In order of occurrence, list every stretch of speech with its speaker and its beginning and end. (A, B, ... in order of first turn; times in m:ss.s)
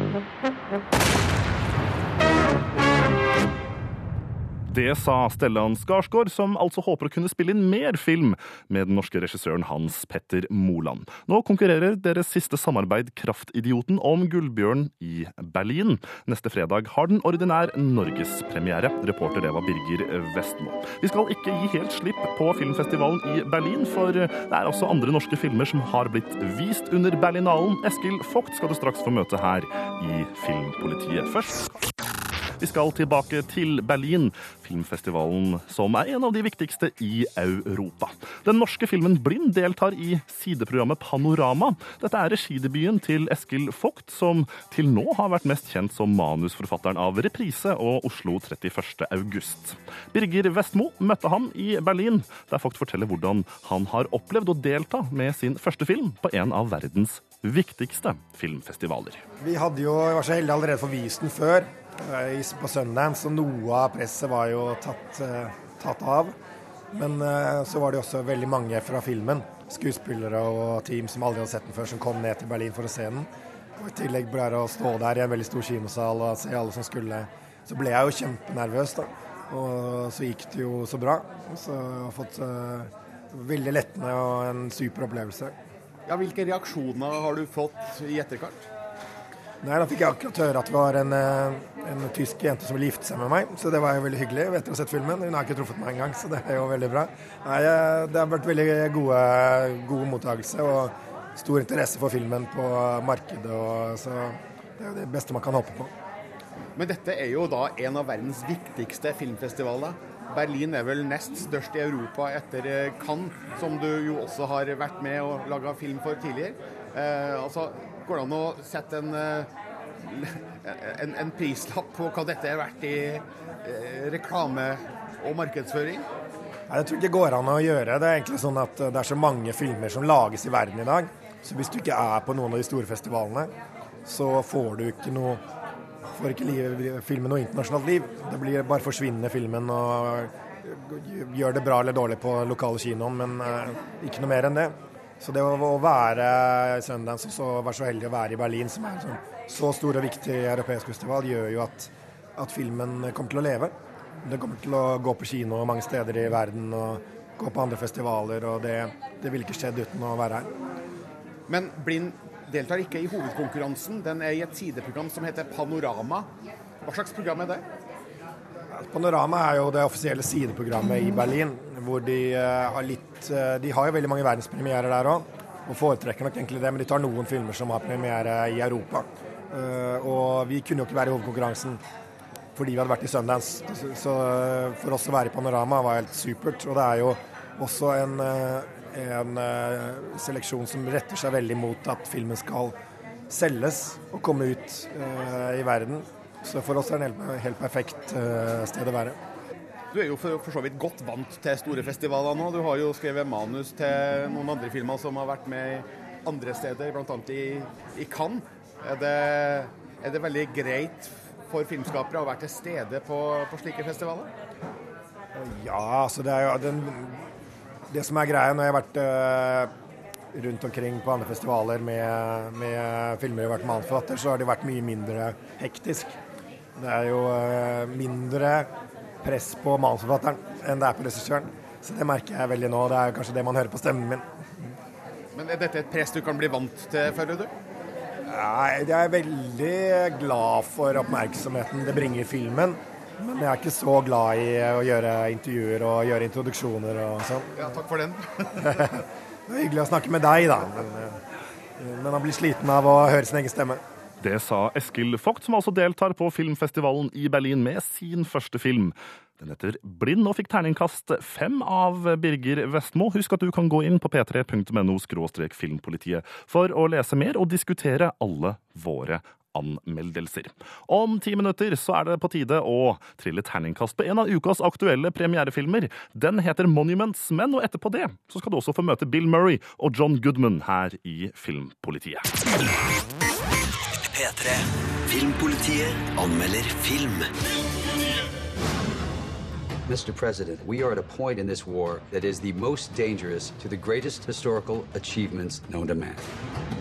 0:04.7-0:31.6 A
0:32.6-0:59.2 A
0:59.4-1:06.3 B
1:06.9-1:13.3 B
1:13.8-1:25.5 B
1:26.1-1:28.6 C
1:29.6-1:45.9 B
1:46.8-1:59.5 C
2:00.0-2:06.0 C
2:06.7-2:13.5 B
2:14.0-2:15.4 B
2:16.2-2:33.7 B
2:34.2-2:40.5 B
2:41.5-2:46.3 C
2:46.8-2:47.6 C
2:48.8-3:01.8 B
3:02.6-3:12.7 B
3:13.3-3:19.2 B
3:19.9-3:34.3 C
3:35.4-3:37.2 B
3:37.9-3:39.7 B
3:40.3-3:46.1 B
3:46.8-3:48.7 B
3:49.2-3:54.2 B
3:55.3-3:57.5 C
3:58.3-4:07.7 B
4:07.6-4:08.6 C
4:09.5-4:11.2 B
4:11.8-4:13.8 B
4:14.2-4:42.3 A
4:44.1-4:47.3 D
4:49.9-4:56.2 E